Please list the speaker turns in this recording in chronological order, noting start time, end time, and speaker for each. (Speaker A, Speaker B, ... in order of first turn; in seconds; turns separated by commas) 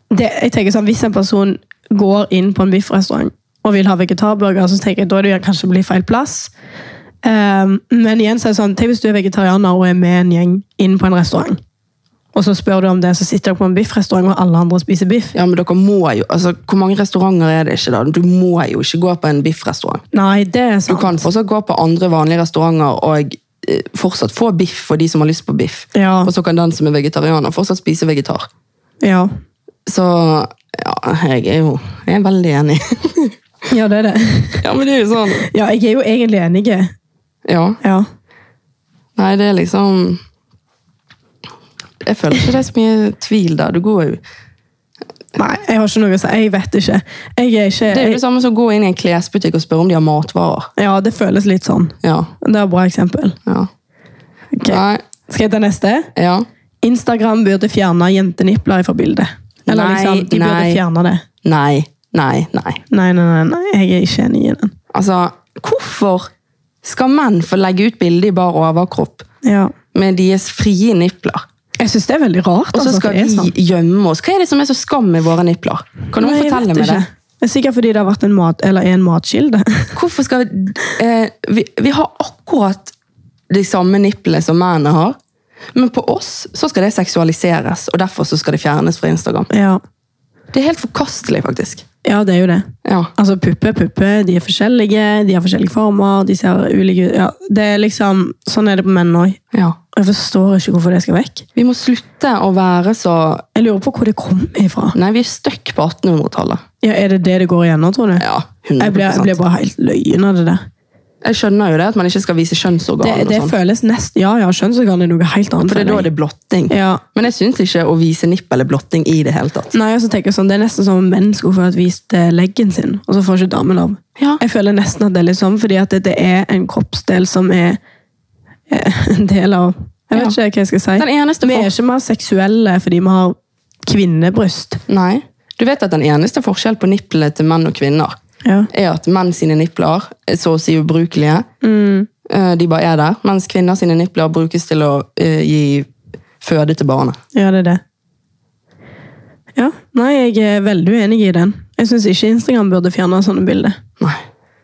Speaker A: 0.1-6.5, Speaker A: 7.2-11.6, Speaker A: 12.3-15.3, Speaker B: 15.3-20.0, Speaker A: 20.1-21.2, Speaker B: 20.9-28.5, Speaker A: 25.9-26.3, Speaker A: 29.0-29.3, Speaker B: 29.9-33.4, Speaker A: 33.7-34.6, Speaker B: 34.6-35.5, Speaker A: 35.4-36.9, Speaker B: 37.5-37.8, Speaker B: 39.2-40.2, Speaker B: 42.0-44.2, Speaker A: 45.4-48.2, Speaker B: 47.9-50.7, Speaker A: 50.8-53.4, Speaker B: 52.0-52.3, Speaker A: 54.5-56.1, Speaker B: 54.7-55.0, Speaker B: 56.1-56.5, Speaker A: 56.8-61.2, Speaker B: 59.7-60.8, Speaker B: 61.4-62.8, Speaker A: 62.9-64.7, Speaker B: 64.9-66.3, Speaker B: 66.8-69.3, Speaker A: 69.4-69.7, Speaker B: 69.9-71.4, Speaker A: 71.8-73.5, Speaker B: 72.7-77.0, Speaker A: 76.2-79.9, Speaker B: 80.0-82.9, Speaker B: 83.5-85.2, Speaker B: 85.8-89.5, Speaker A: 89.5-89.8, Speaker B: 90.5-91.8, Speaker A: 92.0-99.4, Speaker B: 92.8-93.1, Speaker A: 99.9-101.5, Speaker B: 101.6-103.4, Speaker A: 103.5-105.0, Speaker B: 105.0-106.6, Speaker A: 106.8-108.2, Speaker B: 108.2-109.4, Speaker A: 108.8-110.6, Speaker B: 111.2-113.5, Speaker A: 113.0-116.1, Speaker B: 115.7-119.7, Speaker A: 116.7-117.0, Speaker A: 119.7-127.8, Speaker A: 128.7-133.3, Speaker B: 131.0-131.7, Speaker A: 133.9-134.8, Speaker B: 134.9-138.2, Speaker A: 138.4-138.7, Speaker B: 138.7-141.5, Speaker A: 141.6-142.1, Speaker B: 142.3-145.9, Speaker B: 146.4-147.2, Speaker A: 147.3-147.8, Speaker A: 149.6-153.8